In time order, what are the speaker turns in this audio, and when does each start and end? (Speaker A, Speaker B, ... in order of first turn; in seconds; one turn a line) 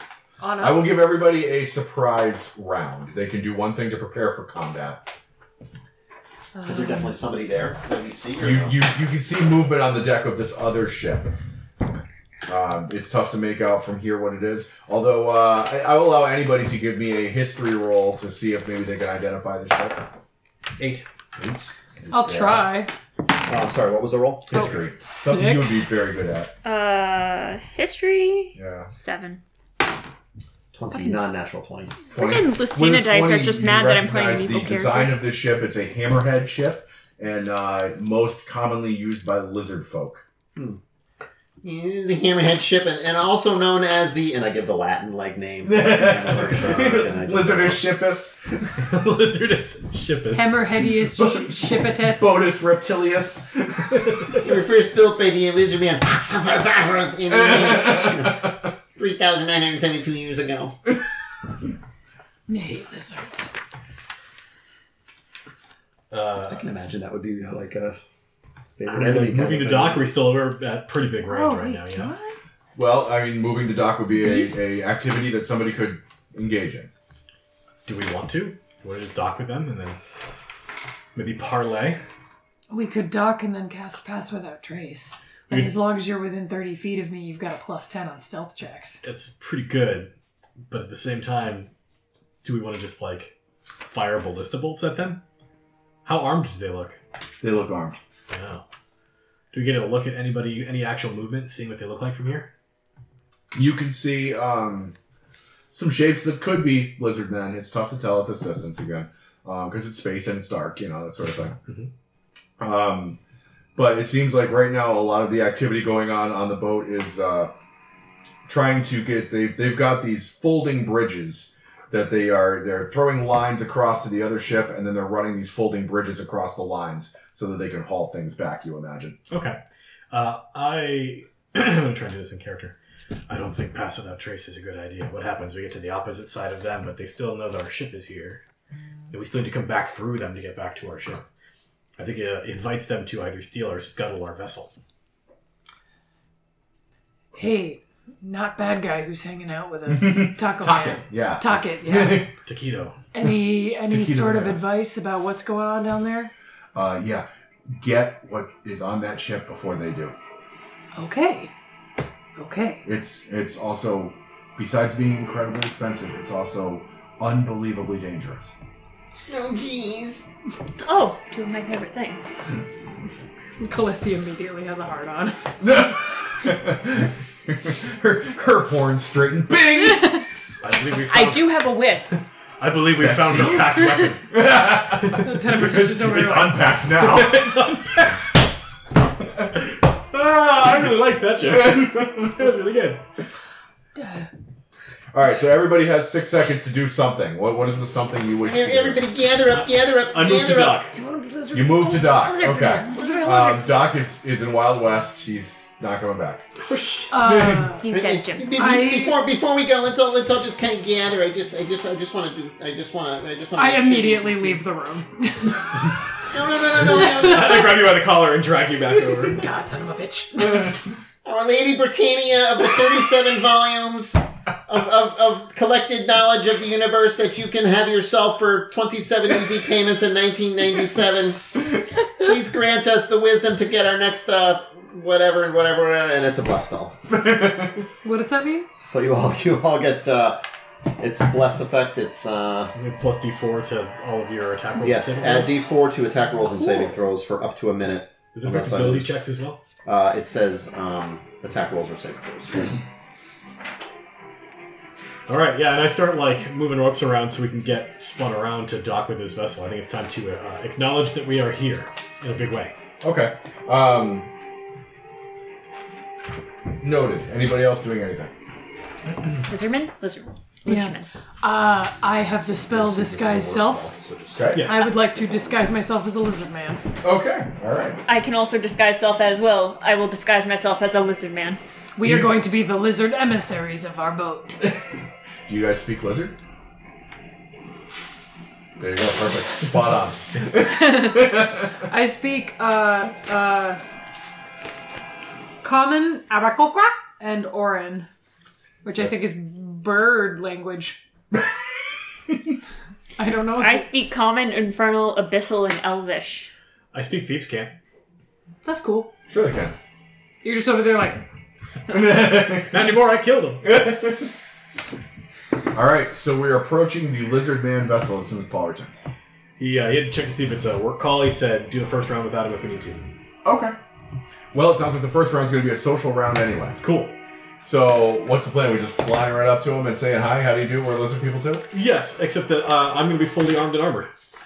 Speaker A: 0.4-0.9
Speaker B: 0.6-5.1
Speaker A: 6.6-7.0
Speaker C: 6.6-8.8
Speaker B: 8.4-11.3
Speaker B: 12.5-20.1
Speaker D: 20.8-21.1
Speaker B: 21.4-22.7
Speaker A: 22.1-22.9
Speaker C: 23.4-24.7
Speaker B: 24.5-26.5
Speaker A: 24.5-25.9
Speaker E: 26.6-29.4
Speaker B: 28.5-28.9
Speaker C: 30.7-31.9
Speaker E: 30.9-31.2
Speaker E: 32.1-35.2
Speaker B: 32.1-40.2
Speaker C: 40.5-40.8
Speaker C: 41.6-47.9
Speaker B: 45.6-48.8
Speaker D: 48.8-50.8
Speaker A: 50.3-52.4
Speaker B: 51.0-54.4
Speaker C: 54.4-60.8
Speaker B: 57.3-58.5
Speaker A: 62.5-63.5
Speaker D: 66.1-66.6
Speaker C: 66.4-68.0
Speaker C: 68.8-70.2
Speaker D: 68.8-72.1
Speaker A: 71.2-72.4
Speaker B: 72.8-76.9
Speaker A: 74.2-74.8
Speaker D: 77.8-80.0
Speaker D: 81.1-82.0
Speaker A: 82.7-89.0
Speaker D: 85.5-85.8
Speaker D: 89.0-90.1
Speaker D: 90.7-91.7
Speaker D: 92.4-93.3
Speaker D: 93.9-95.2
Speaker D: 96.0-97.0
Speaker B: 97.4-98.0
Speaker D: 98.3-98.6
Speaker D: 99.5-102.5
Speaker B: 103.5-104.9
Speaker B: 105.7-111.6
Speaker B: 112.6-113.2
Speaker B: 113.7-117.5
Speaker B: 118.5-129.2
Speaker D: 129.3-129.6
Speaker D: 130.1-132.8
Speaker D: 133.3-138.4
Speaker D: 139.1-141.2
Speaker D: 142.0-144.7
Speaker A: 147.3-152.3
Speaker D: 150.6-151.0
Speaker B: 151.1-152.3
Speaker D: 152.4-153.0
Speaker A: 153.1-156.3
Speaker B: 153.9-154.6
Speaker B: 156.7-160.1
Speaker A: 160.9-161.5
Speaker A: 162.3-162.8
Speaker B: 162.8-168.5
Speaker C: 169.3-170.3
Speaker E: 170.8-172.3
Speaker A: 173.6-175.5
Speaker B: 175.6-180.2
Speaker D: 180.6-181.7
Speaker E: 181.1-182.1
Speaker D: 182.6-184.3
Speaker B: 182.9-187.8
Speaker A: 185.1-186.7
Speaker D: 186.9-188.2
Speaker D: 189.4-193.0
Speaker B: 191.4-192.3
Speaker A: 193.9-194.3
Speaker B: 195.1-199.1
Speaker C: 198.4-200.9
Speaker D: 199.4-200.9
Speaker A: 200.9-202.2
Speaker B: 201.5-206.4
Speaker E: 202.0-203.9
Speaker D: 206.6-207.6
Speaker A: 207.1-207.9
Speaker B: 207.2-207.8
Speaker E: 207.8-208.8
Speaker C: 207.9-214.6
Speaker A: 208.5-209.2
Speaker A: 213.5-215.6
Speaker C: 216.3-217.8
Speaker D: 216.7-219.4
Speaker A: 216.8-217.6
Speaker A: 219.2-220.8
Speaker C: 221.2-231.6
Speaker C: 232.1-237.0
Speaker B: 237.1-237.8
Speaker A: 238.0-238.7
Speaker C: 238.8-240.4
Speaker C: 241.0-242.7
Speaker D: 242.7-245.6
Speaker C: 244.8-249.2
Speaker D: 248.3-249.6
Speaker C: 249.8-252.7
Speaker D: 255.3-262.7
Speaker B: 263.0-264.3
Speaker B: 266.8-268.3
Speaker E: 269.4-271.1
Speaker A: 270.6-273.9
Speaker C: 272.2-274.6
Speaker B: 274.3-274.7
Speaker D: 274.5-274.9
Speaker A: 274.6-276.8
Speaker B: 277.0-278.0
Speaker E: 278.1-281.6
Speaker A: 282.0-284.7
Speaker B: 282.0-282.3
Speaker B: 285.5-286.3
Speaker B: 288.8-291.6
Speaker A: 290.5-293.8
Speaker A: 295.6-298.1
Speaker A: 298.8-301.0
Speaker A: 303.2-303.9
Speaker E: 303.6-306.5
Speaker D: 306.9-307.7
Speaker A: 308.6-309.1
Speaker B: 309.3-309.8
Speaker A: 310.4-311.2
Speaker B: 311.9-312.9
Speaker D: 312.4-313.6
Speaker B: 313.6-314.3
Speaker B: 315.7-319.0
Speaker D: 319.6-323.1
Speaker B: 323.4-323.8
Speaker B: 324.5-326.8
Speaker D: 326.8-327.2
Speaker B: 327.6-331.7
Speaker D: 331.7-334.1